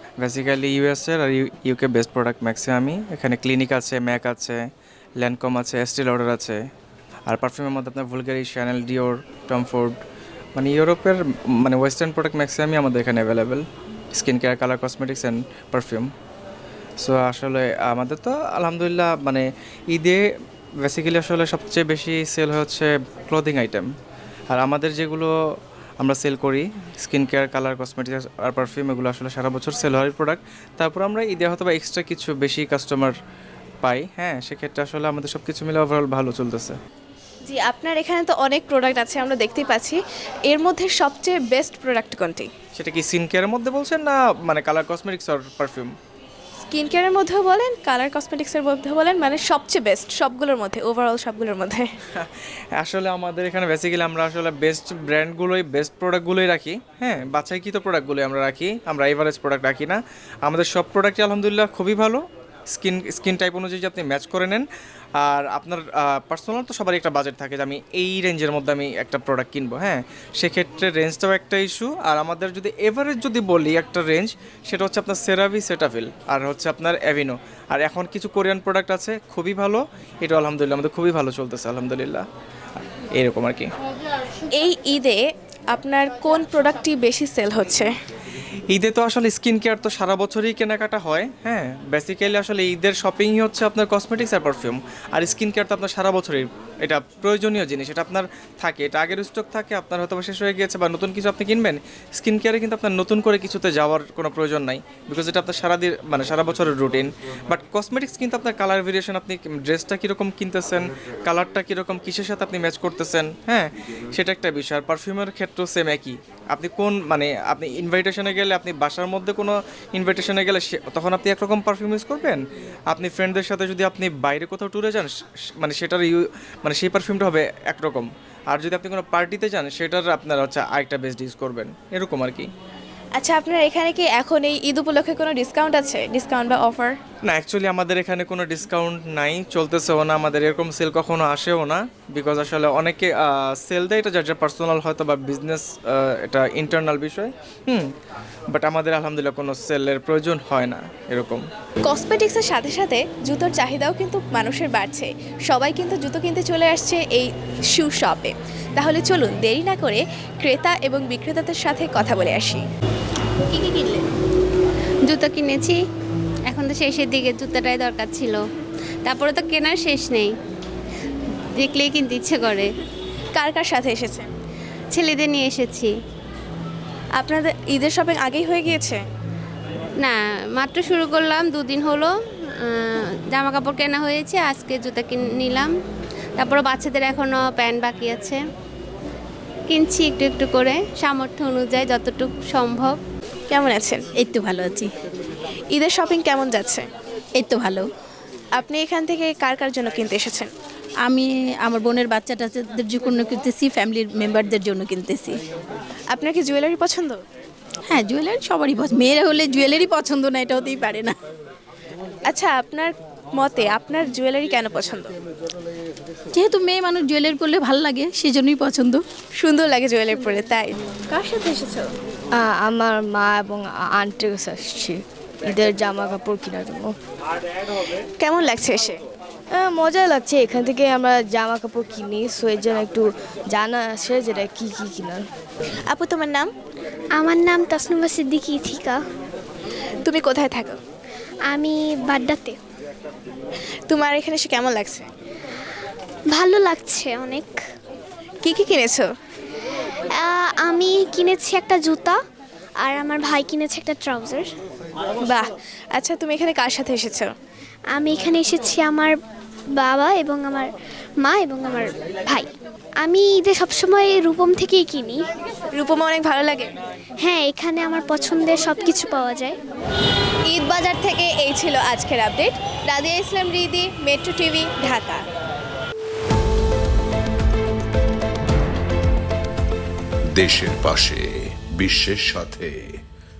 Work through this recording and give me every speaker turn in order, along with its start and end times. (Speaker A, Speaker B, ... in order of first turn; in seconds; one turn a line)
Speaker A: 0.2-4.6
Speaker A: 5.2-6.6
Speaker A: 7.3-10.0
Speaker A: 10.6-13.6
Speaker A: 14.1-16.1
Speaker A: 17.0-20.2
Speaker A: 20.8-23.9
Speaker A: 24.5-25.3
Speaker A: 26.0-33.1
Speaker A: 33.8-36.8
Speaker B: 37.5-42.5
Speaker A: 42.8-45.9
Speaker B: 46.6-51.9
Speaker A: 52.2-64.7
Speaker A: 65.2-82.2
Speaker A: 83.2-83.7
Speaker B: 84.6-85.2
Speaker B: 85.7-87.9
Speaker A: 88.7-132.5
Speaker B: 133.2-136.9
Speaker A: 137.3-147.9
Speaker A: 148.5-151.4
Speaker B: 151.9-162.6
Speaker B: 163.6-163.9
Speaker C: 165.1-165.8
Speaker C: 166.5-168.4
Speaker C: 169.0-170.3
Speaker C: 171.6-172.7
Speaker B: 173.3-174.3
Speaker C: 174.9-175.9
Speaker B: 177.2-179.0
Speaker C: 180.0-182.1
Speaker C: 182.7-185.7
Speaker C: 186.4-188.4
Speaker C: 189.7-193.0
Speaker B: 193.5-194.0
Speaker D: 194.2-194.9
Speaker B: 195.7-196.9
Speaker D: 197.4-197.9
Speaker B: 198.6-200.5
Speaker D: 201.0-205.4
Speaker B: 206.1-207.2
Speaker D: 207.9-211.2
Speaker B: 212.3-215.1
Speaker D: 216.3-219.0
Speaker B: 219.4-221.9
Speaker E: 222.4-226.9
Speaker B: 228.2-229.0
Speaker E: 229.5-235.2
Speaker B: 235.9-236.5
Speaker F: 237.2-239.0
Speaker B: 240.0-240.8
Speaker F: 241.5-242.6
Speaker B: 243.9-245.1
Speaker F: 246.3-247.6
Speaker B: 248.4-249.1
Speaker F: 250.2-252.2
Speaker F: 252.8-254.5
Speaker B: 255.2-257.3
Speaker F: 257.9-259.2
Speaker F: 259.8-260.7
Speaker F: 261.2-262.5
Speaker F: 263.0-265.2
Speaker B: 265.8-266.7
Speaker F: 267.2-269.6
Speaker B: 270.5-275.2
Speaker G: 280.4-282.8